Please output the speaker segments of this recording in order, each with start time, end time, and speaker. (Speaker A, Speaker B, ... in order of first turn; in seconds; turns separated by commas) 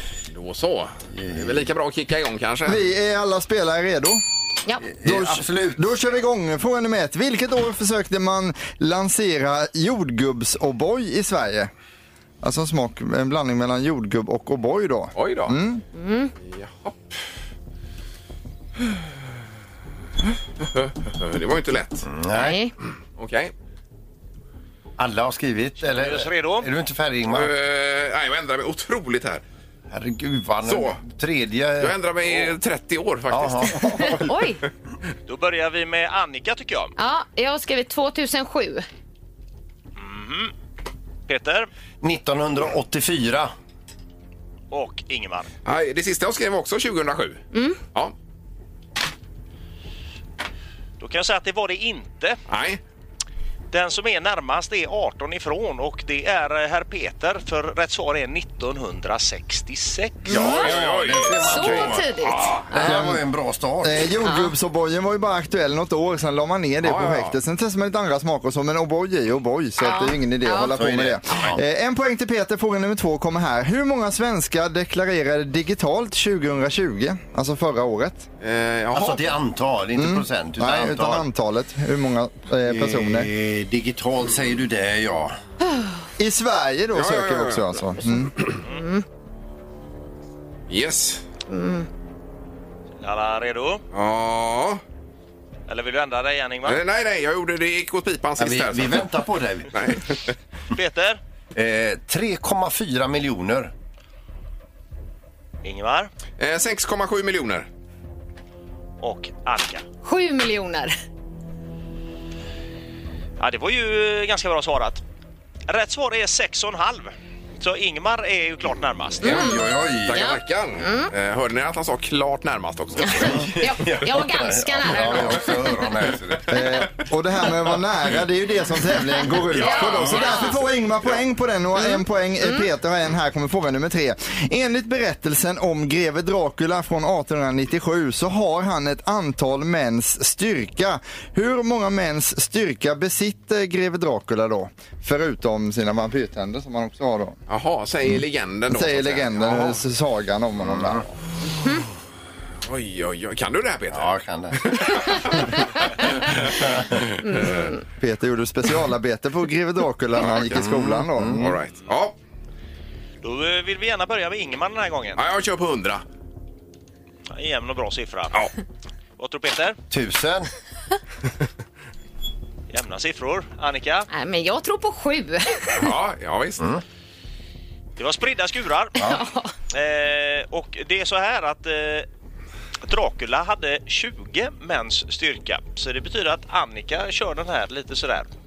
Speaker A: 0.3-2.8, Speaker B: 1.1-1.6, Speaker C: 2.6-4.2, Speaker B: 4.8-5.9, Speaker C: 5.0-11.7, Speaker C: 12.4-15.8, Speaker A: 15.1-15.6, Speaker D: 15.9-16.3, Speaker A: 16.4-17.1, Speaker A: 20.6-22.0, Speaker B: 22.0-22.6, Speaker D: 22.3-22.7, Speaker A: 23.2-23.5, Speaker B: 25.0-27.5, Speaker E: 25.9-26.7, Speaker A: 27.3-29.4, Speaker B: 29.9-32.5, Speaker A: 30.6-31.0, Speaker A: 31.8-34.1, Speaker B: 33.3-34.3, Speaker D: 34.0-34.6, Speaker E: 35.3-36.9, Speaker D: 37.0-38.9, Speaker E: 40.0-40.5, Speaker E: 41.3-41.7, Speaker B: 42.0-43.5, Speaker E: 44.7-45.5, Speaker A: 45.6-48.1, Speaker D: 47.5-47.8, Speaker E: 51.0-52.4, Speaker A: 52.5-52.8, Speaker E: 53.7-60.4, Speaker D: 60.3-60.7, Speaker B: 60.3-62.0, Speaker A: 60.3-62.7, Speaker D: 61.3-62.9, Speaker B: 62.7-64.1, Speaker C: 62.8-63.2, Speaker C: 63.8-78.3, Speaker D: 64.2-64.5, Speaker A: 66.8-67.3, Speaker D: 69.8-70.7, Speaker B: 70.7-71.6, Speaker A: 78.4-79.3, Speaker B: 78.9-81.2, Speaker C: 80.0-83.3, Speaker B: 82.7-85.4, Speaker C: 86.2-88.4, Speaker A: 86.9-87.8, Speaker D: 88.7-89.0, Speaker A: 90.7-91.2, Speaker D: 91.5-91.9, Speaker E: 93.0-93.8, Speaker A: 93.9-94.8, Speaker E: 95.7-96.8, Speaker A: 96.6-99.1, Speaker B: 98.4-99.7, Speaker A: 99.7-100.3, Speaker E: 100.7-101.2, Speaker B: 101.5-103.7, Speaker E: 105.6-106.1, Speaker A: 106.4-107.7, Speaker E: 109.0-109.8, Speaker D: 110.0-110.9, Speaker E: 113.4-115.0, Speaker E: 115.7-119.3, Speaker D: 119.2-121.1, Speaker A: 119.2-123.5, Speaker B: 119.2-120.3, Speaker D: 123.0-125.6, Speaker B: 123.1-126.6, Speaker A: 125.0-125.3, Speaker C: 126.5-147.4, Speaker D: 129.5-130.5, Speaker A: 129.5-130.6, Speaker D: 131.8-132.7, Speaker A: 147.5-149.8, Speaker C: 148.7-151.1, Speaker B: 150.6-151.0, Speaker A: 152.7-156.5, Speaker B: 153.9-155.1, Speaker B: 156.4-157.0, Speaker A: 157.2-157.6, Speaker D: 157.2-157.8, Speaker C: 158.0-161.6, Speaker A: 160.2-160.6, Speaker B: 160.4-161.4, Speaker A: 161.3-162.1, Speaker E: 163.2-165.2, Speaker A: 165.2-166.0, Speaker E: 167.3-168.5, Speaker E: 169.2-169.8, Speaker B: 169.9-170.5, Speaker E: 172.7-174.1, Speaker D: 174.1-175.7, Speaker A: 175.7-176.6, Speaker E: 178.0-179.0, Speaker D: 179.0-179.5, Speaker E: 179.7-182.1, Speaker E: 182.8-188.3